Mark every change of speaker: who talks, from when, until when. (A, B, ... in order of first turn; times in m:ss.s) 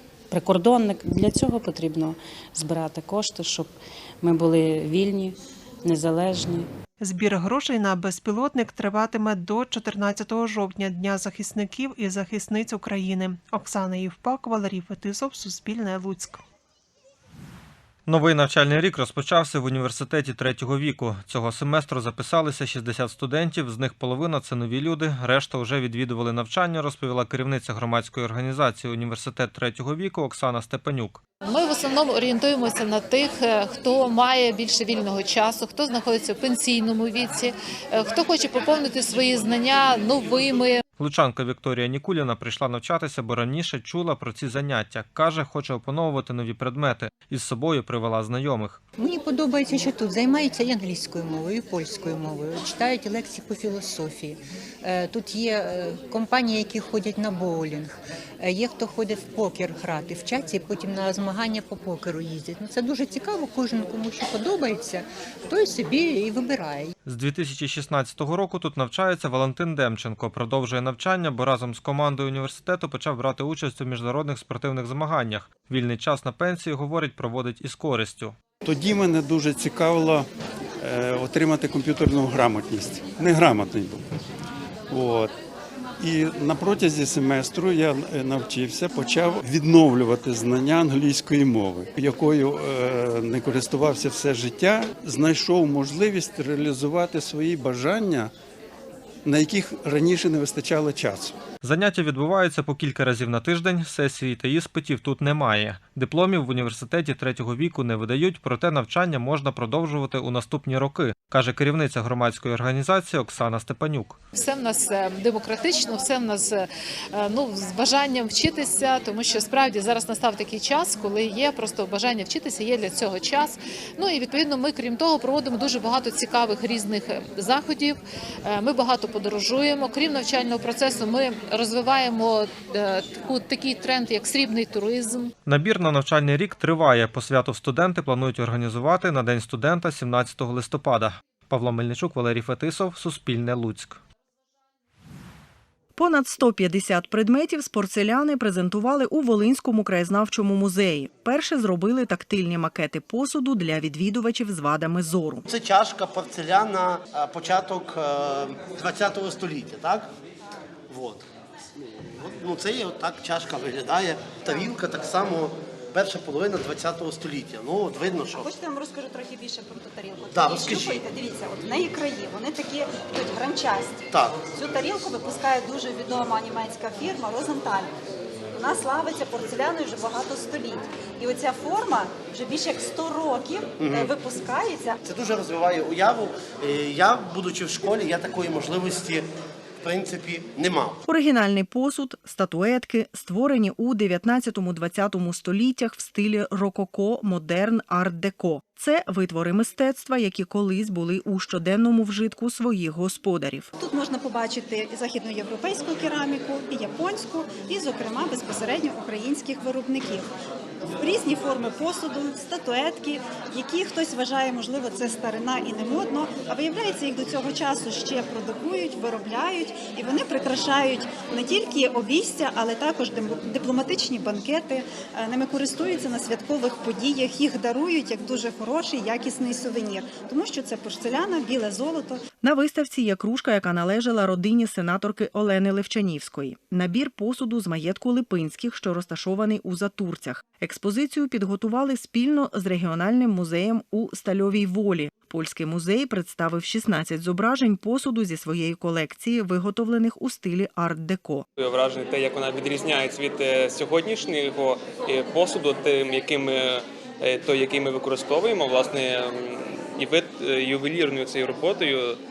0:00.3-0:06.7 A
0:07.0-0:16.4 B
0:18.1-0:31.2 C
0:31.4-0:40.8 D
0:41.0-0:48.8 C
0:49.0-1:06.9 E
1:07.0-1:18.4 C
1:18.6-1:20.3 F
1:20.8-1:24.0 F
1:24.9-1:25.3 F
1:26.0-1:38.3 F
1:39.2-1:41.3 F
1:41.6-1:54.2 C
1:54.3-2:15.3 D
2:15.4-2:24.0 C
2:26.0-2:35.4 G
2:35.5-2:40.1 H
2:40.9-2:41.2 H
2:42.2-2:48.5 H
2:48.3-2:57.9 I
2:50.3-2:51.0 H
2:54.1-2:54.4 H
2:58.5-3:05.0 I
3:03.8-3:04.1 H
3:05.0-3:09.2 H
3:09.8-3:11.0 H
3:11.1-3:23.7 G
3:23.8-3:30.3 I
3:31.0-3:52.2 I
3:52.4-4:11.4 G
4:12.0-4:13.1 J
4:17.3-4:18.7 J
4:20.0-4:22.0 J